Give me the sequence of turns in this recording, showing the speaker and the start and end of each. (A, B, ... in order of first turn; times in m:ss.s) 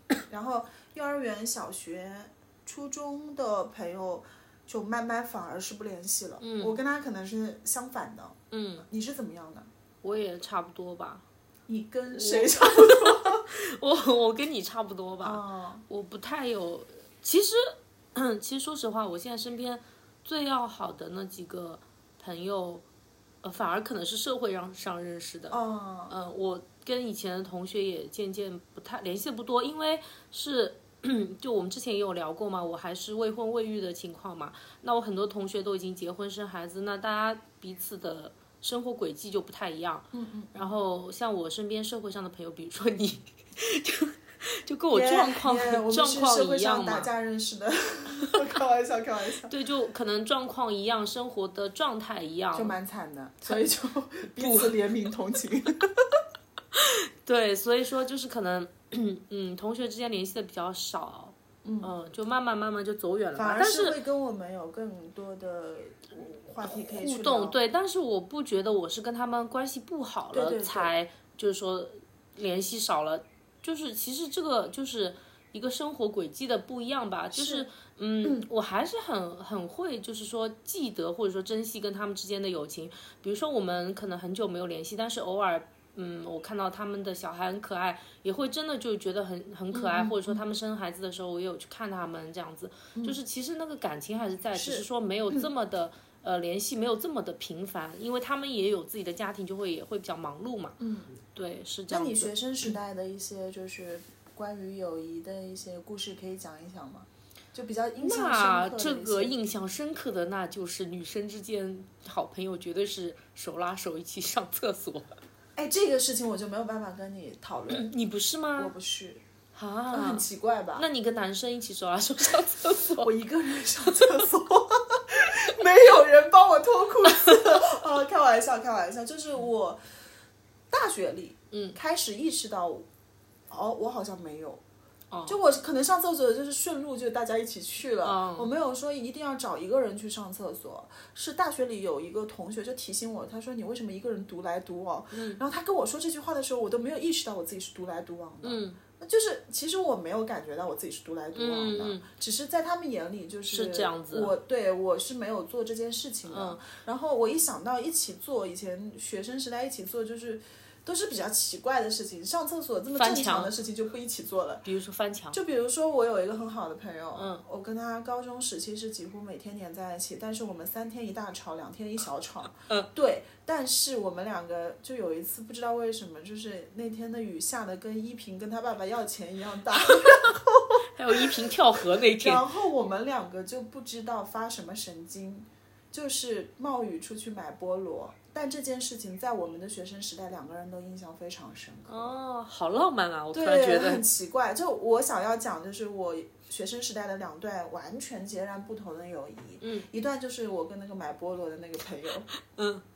0:00.3-0:09.7 A
0:06.4-0:06.8 B
0:08.5-0:08.9 B
0:10.0-0:11.2 B
0:11.7-0:13.5 A
0:12.1-0:22.8 B
0:15.2-0:15.8 A
0:23.4-0:47.1 B
0:25.5-0:26.2 A
0:40.1-0:40.7 A
0:44.9-0:49.5 A
0:49.5-0:52.8 B
0:52.5-0:56.2 A
0:54.4-0:54.8 B
0:56.7-1:04.0 B
1:01.6-1:01.9 A
1:03.4-1:07.6 A
1:07.0-1:40.8 B
1:10.3-1:10.9 A
1:17.3-1:17.7 A
1:29.7-1:30.4 A
1:34.5-1:35.5 A
1:40.8-1:41.2 A
1:41.3-1:42.3 B
1:41.9-1:49.4 A
1:48.0-1:55.1 B
1:55.6-1:57.9 A
1:57.7-1:58.7 B
1:58.6-1:59.2 A
1:59.6-2:03.1 B
1:59.9-2:00.9 A
2:03.0-2:09.8 A
2:10.7-2:12.9 A
2:11.5-2:11.8 B
2:13.5-2:14.6 A
2:15.1-2:15.4 B
2:15.3-2:44.7 A
2:18.0-2:18.5 B
2:25.1-2:25.4 B
2:28.4-2:28.8 B
2:31.3-2:32.1 B
2:33.5-2:34.3 B
2:36.3-2:36.6 B
2:43.0-2:43.5 B
2:44.6-2:45.4 B
2:45.3-3:01.4 A
2:47.2-2:47.4 B
3:01.0-3:02.4 B
3:02.0-3:12.2 A
3:11.9-3:14.0 B
3:13.3-3:22.3 A
3:19.6-3:19.9 B
3:22.5-3:22.8 B